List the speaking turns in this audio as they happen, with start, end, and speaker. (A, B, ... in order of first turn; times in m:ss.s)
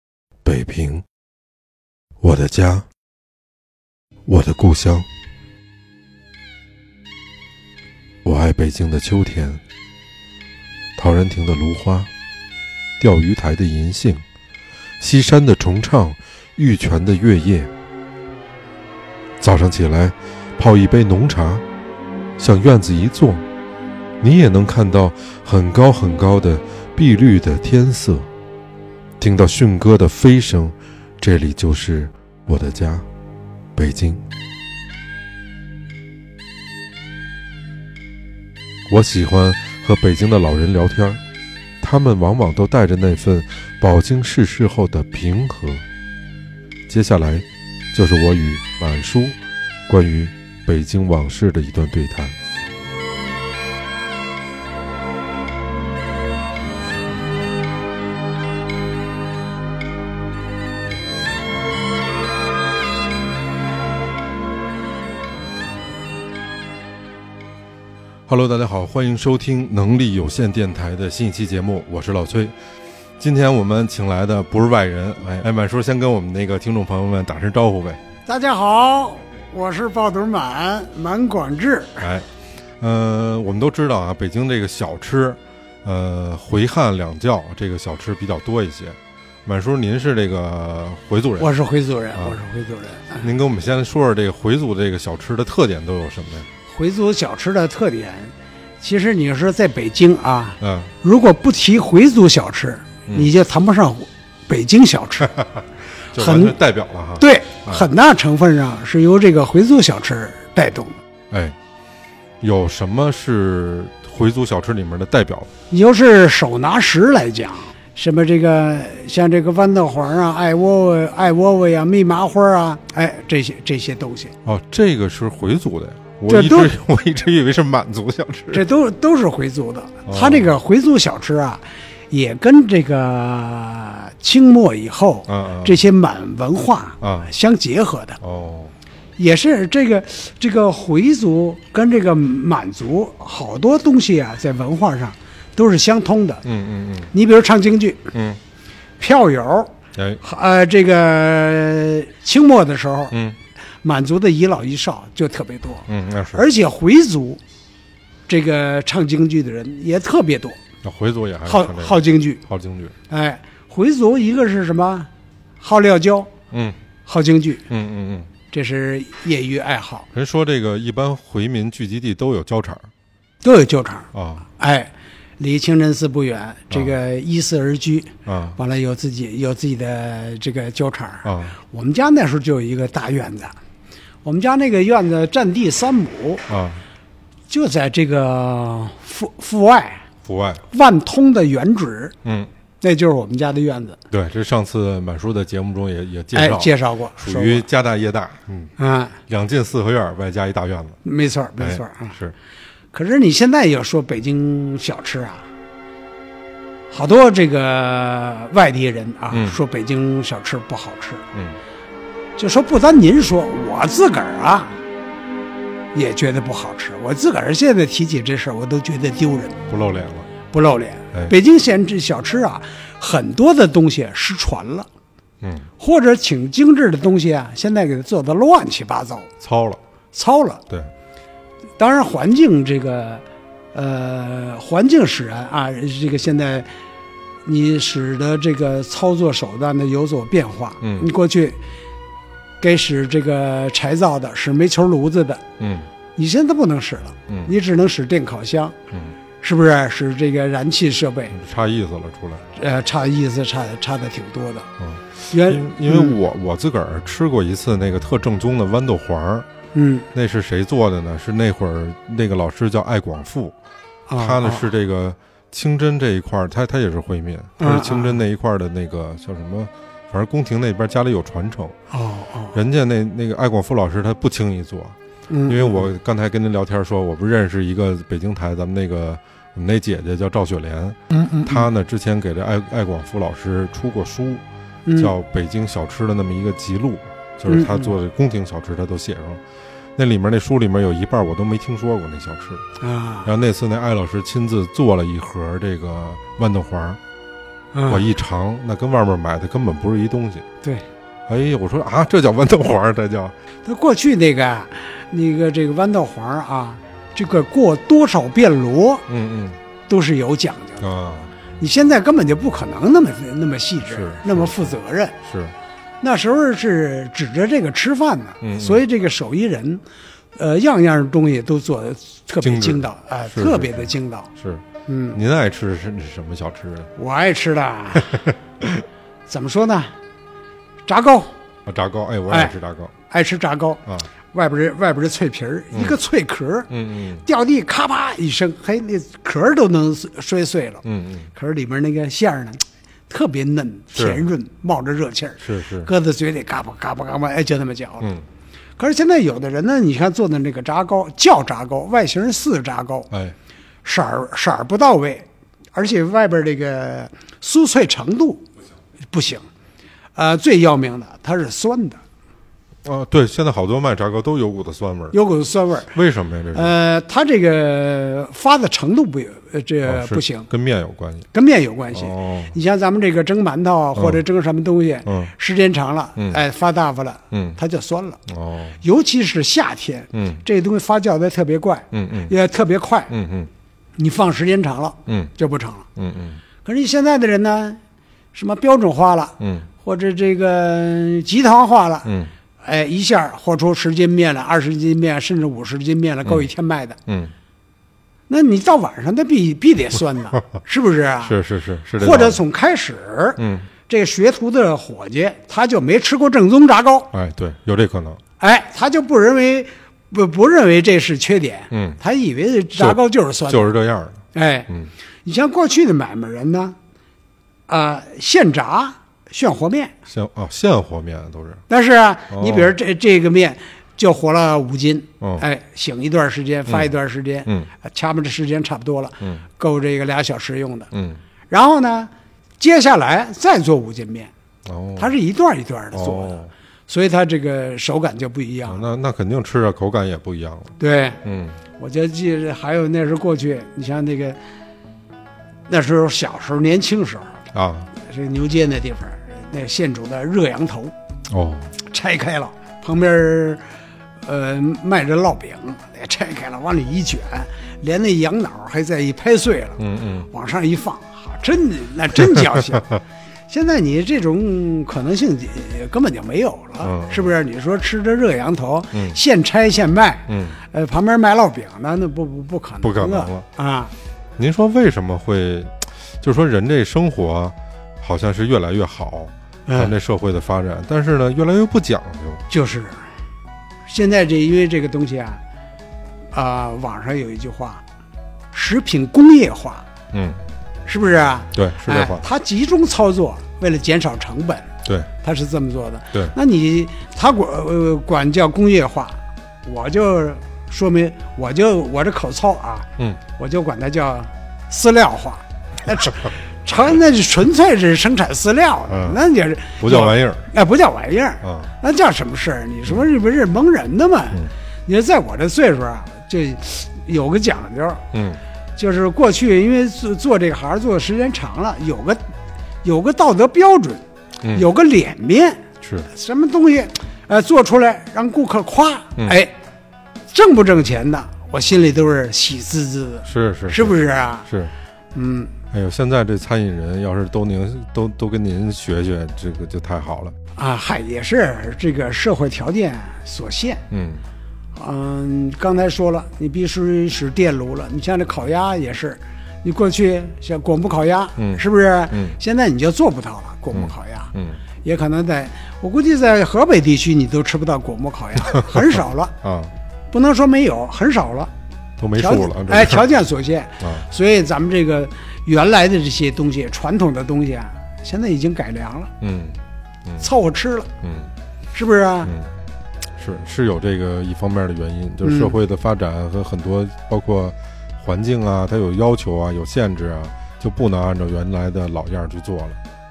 0:00.4-0:01.0 A
0:02.2-0:02.8 A
0:04.3-0:05.0 A
0:08.2-0:09.6 A
0:11.0-0:12.1 A
0:13.0-0:14.2 A
0:15.0-0:17.7 A
0:19.4-0:21.6 A
0:22.4-0:23.4 A
0:24.2-0:28.3 A
0:29.2-0:33.0 A
0:33.8-0:34.2 A
0:38.9-0:41.2 A
0:41.8-0:45.8 A
0:46.9-0:49.4 A
0:49.9-0:52.4 A
1:08.3-1:12.5 A
1:13.2-1:18.0 A
1:18.2-1:22.0 B
1:22.0-1:22.3 A
1:22.8-1:31.5 A
1:31.4-1:33.3 B
1:32.1-1:32.4 A
1:33.2-1:36.5 A
1:36.6-1:45.3 B
1:40.6-1:40.9 A
1:45.2-1:47.9 A
1:46.2-1:46.6 B
1:47.2-1:51.0 B
1:51.3-1:51.6 A
1:52.4-1:55.5 A
1:55.7-2:04.3 B
2:04.4-2:08.6 A
2:06.3-2:06.7 B
2:08.5-2:18.2 B
2:10.1-2:10.5 A
2:15.3-2:15.8 A
2:17.0-2:17.3 A
2:18.2-2:18.7 A
2:19.2-2:26.4 B
2:26.4-2:27.1 A
2:27.1-2:28.1 B
2:28.1-2:28.4 A
2:29.0-2:33.1 B
2:29.9-2:30.2 A
2:33.1-2:33.4 A
2:33.8-2:37.4 B
2:35.9-2:36.4 A
2:38.3-2:40.6 B
2:40.8-2:42.9 A
2:41.5-2:42.4 B
2:43.1-2:45.1 B
2:45.6-2:46.3 B
2:47.0-2:47.7 B
2:47.7-2:48.3 A
2:48.5-2:50.1 B
2:50.1-2:52.9 A
2:53.4-3:03.5 B
2:54.1-2:54.4 A
2:56.7-2:56.9 A
2:58.2-2:58.6 A
3:01.2-3:01.6 A
3:04.2-3:06.4 B
3:06.5-3:06.8 A
3:07.5-3:10.0 B
3:10.2-3:10.6 A
3:10.7-3:12.2 B
3:12.2-3:12.5 A
3:12.8-3:14.0 B
3:14.1-3:18.7 A
3:16.3-3:17.7 B
3:18.8-3:19.2 B
3:19.3-3:21.0 A
3:21.0-3:22.2 B
3:21.6-3:22.3 A
3:22.9-3:25.5 B
3:26.9-3:31.3 B
3:29.3-3:29.6 A
3:32.4-3:34.8 B
3:35.9-3:39.6 B
3:39.7-3:40.3 A
3:40.5-3:44.9 B
3:45.4-3:45.7 A
3:45.8-3:49.3 B
3:49.4-3:49.8 A
3:50.1-3:50.6 B
3:51.8-3:56.7 B
3:57.4-4:01.6 B
4:00.8-4:01.1 A
4:02.6-4:05.4 B
4:05.6-4:05.9 A
4:06.2-4:08.8 B
4:09.4-4:11.3 B
4:11.3-4:12.4 A
4:12.6-4:14.7 B
4:14.8-4:19.5 A
4:15.3-4:16.2 B
4:19.7-4:20.1 B
4:20.1-4:23.5 A
4:24.1-4:24.6 B
4:24.2-4:31.8 A
4:27.6-4:28.2 B
4:31.9-4:32.6 B
4:32.5-4:35.0 A
4:35.3-4:35.9 B
4:35.5-4:44.4 A
4:41.1-4:41.7 B
4:44.8-4:45.1 B
4:45.0-4:49.4 A
4:47.5-4:47.9 B
4:50.0-4:52.6 A
4:52.8-4:53.3 B
4:53.2-4:57.0 A
4:57.7-4:58.1 B
4:57.9-5:00.4 A
5:00.6-5:00.9 B
5:01.3-5:03.3 A
5:03.6-5:09.0 B
5:09.1-5:09.6 A
5:09.9-5:10.8 B
5:10.8-5:11.4 A
5:11.6-5:15.2 B
5:13.8-5:14.7 A
5:15.2-5:15.5 A
5:16.0-5:19.8 B
5:18.4-5:18.8 A
5:20.4-5:24.3 B
5:22.4-5:26.9 A
5:24.9-5:25.2 B
5:27.0-5:28.2 B
5:28.0-5:28.8 A
5:29.3-5:29.9 B
5:30.8-5:31.3 B
5:31.7-5:32.9 A
5:32.3-5:32.5 B
5:33.1-5:33.8 B
5:34.3-5:36.7 B
5:36.7-5:37.2 A
5:37.2-5:40.8 B
5:40.8-5:41.3 A
5:41.3-5:48.1 B
5:43.9-5:44.2 A
5:45.4-5:45.9 A
5:48.8-5:53.1 B
5:53.8-5:58.4 B
5:59.1-5:59.4 B
6:00.1-6:02.0 B
6:02.8-6:05.2 A
6:05.1-6:05.9 B
6:05.9-6:06.7 A
6:06.5-6:10.5 B
6:09.8-6:11.3 A
6:11.3-6:18.2 B
6:11.9-6:12.5 A
6:14.0-6:14.2 A
6:15.0-6:15.3 A
6:17.3-6:17.6 A
6:18.3-6:18.8 A
6:18.8-6:23.1 B
6:20.1-6:20.4 A
6:21.9-6:22.3 A
6:23.1-6:23.5 A
6:24.0-6:25.8 B
6:25.1-6:25.3 A
6:26.0-6:26.4 A
6:26.6-6:27.8 B
6:28.3-6:32.1 B
6:29.4-6:29.7 A
6:32.0-6:32.3 A
6:32.6-6:37.0 B
6:37.1-6:37.3 A
6:38.3-6:41.4 B
6:41.2-6:42.4 A
6:42.0-6:47.1 B
6:43.4-6:43.7 A
6:47.1-6:48.2 A
6:48.4-6:53.7 B
6:51.7-6:52.0 A
6:52.8-6:54.9 A
6:54.3-6:54.7 B
6:55.2-6:56.8 B
6:57.7-6:59.9 B
7:00.1-7:01.6 A
7:01.7-7:10.9 B
7:02.3-7:02.7 A
7:10.9-7:11.2 A
7:11.5-7:14.3 B
7:14.6-7:15.1 A
7:15.0-7:18.8 B
7:15.9-7:16.5 A
7:18.7-7:21.6 A
7:20.8-7:21.2 B
7:21.8-7:24.4 B
7:25.7-7:27.4 B
7:27.5-7:27.9 A
7:28.0-7:30.9 B
7:31.3-7:31.7 A
7:31.8-7:33.6 B
7:34.2-7:42.9 B
7:39.8-7:40.3 A
7:43.5-7:53.9 B
7:46.8-7:47.3 A
7:50.3-7:50.6 A
7:52.8-7:53.4 A
7:54.4-8:02.4 A
7:59.7-7:59.9 B
8:02.5-8:03.0 B
8:03.8-8:05.4 B
8:06.3-8:07.8 B
8:08.5-8:09.8 B
8:10.1-8:10.4 A
8:10.9-8:14.7 B
8:11.5-8:12.2 A
8:15.2-8:38.1 B
8:28.9-8:29.2 A
8:29.8-8:30.5 A
8:31.4-8:31.7 A
8:38.1-8:38.4 A
8:38.8-8:42.2 B
8:42.8-8:49.5 B
8:44.4-8:44.7 A
8:45.8-8:46.1 A
8:50.3-8:54.5 B
8:53.2-8:53.9 A
8:54.5-8:54.7 A
8:55.1-8:55.5 B
8:55.7-9:00.3 A
9:00.6-9:03.8 B
9:03.9-9:04.2 A
9:04.7-9:14.3 B
9:11.4-9:12.4 A
9:13.7-9:14.6 A
9:14.8-9:19.4 B
9:18.5-9:18.9 A
9:19.4-9:19.7 A
9:20.1-9:21.5 B
9:22.0-9:23.0 A
9:22.2-9:29.1 B
9:29.2-9:30.2 A
9:30.2-9:30.9 B
9:31.0-9:31.3 A
9:31.7-9:32.3 B
9:32.2-9:32.6 A
9:33.2-9:42.8 A
9:35.2-9:35.5 B